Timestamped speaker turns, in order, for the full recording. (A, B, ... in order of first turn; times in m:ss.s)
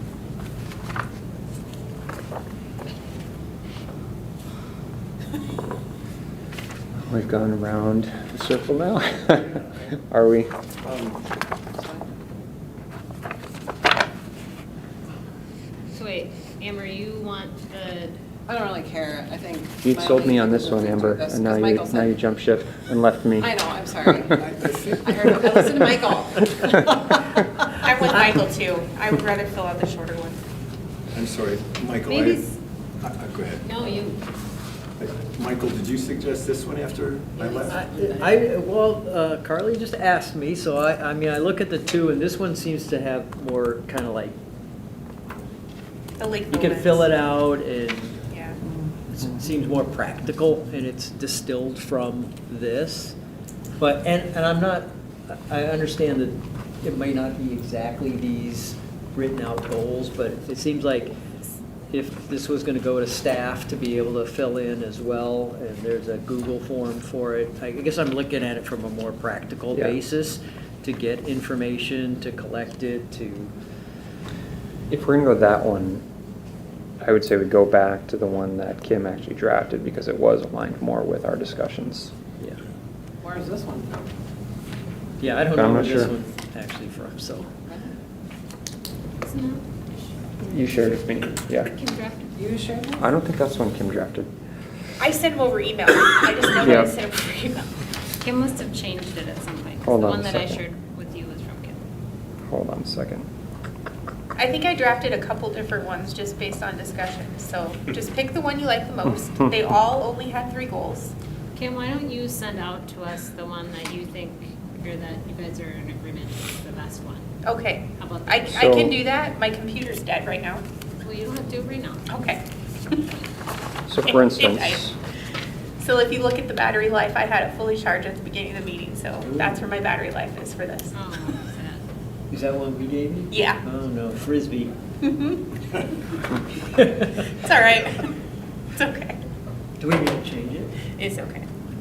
0:07.0-0:09.6 A
0:10.1-0:10.5 A
0:10.8-0:11.2 B
0:11.7-0:12.1 C
0:15.9-0:18.2 D
0:18.5-0:22.1 C
0:19.8-0:23.6 A
0:23.4-0:26.9 C
0:24.4-0:25.2 B
0:27.8-0:30.4 E
0:31.1-0:32.4 B
0:32.1-0:32.5 D
0:33.0-0:33.7 B
0:33.6-0:34.2 D
0:35.0-0:37.8 B
0:37.4-0:38.3 D
0:37.7-0:44.4 F
0:46.2-0:47.1 E
0:46.5-0:48.2 F
0:48.3-0:48.6 E
0:49.1-0:53.2 F
0:53.8-1:01.2 F
1:01.9-1:13.5 F
1:14.9-1:16.0 A
1:17.0-1:22.1 A
1:23.2-1:24.0 C
1:25.2-1:27.5 F
1:25.5-1:26.1 A
1:29.2-1:30.1 D
1:30.4-1:31.7 A
1:31.6-1:32.4 D
1:32.4-1:33.0 C
1:32.9-1:34.3 A
1:35.0-1:37.7 E
1:36.6-1:36.9 A
1:38.2-1:41.8 D
1:39.8-1:40.6 A
1:42.5-1:43.3 A
1:44.4-1:51.1 E
1:51.5-1:57.3 D
1:57.4-2:00.6 E
1:58.0-1:58.8 D
1:58.5-1:58.9 A
2:01.0-2:02.2 D
2:02.1-2:02.4 E
2:03.9-2:05.0 A
2:04.0-2:04.8 E
2:05.8-2:11.0 E
2:09.2-2:09.6 F
2:10.9-2:11.8 D
2:12.3-2:14.7 F
2:13.3-2:13.6 E
2:15.0-2:15.6 E
2:16.7-2:17.0 F
2:17.2-2:18.1 E
2:18.8-2:19.2 E
2:19.8-2:20.7 F
2:21.0-2:21.4 E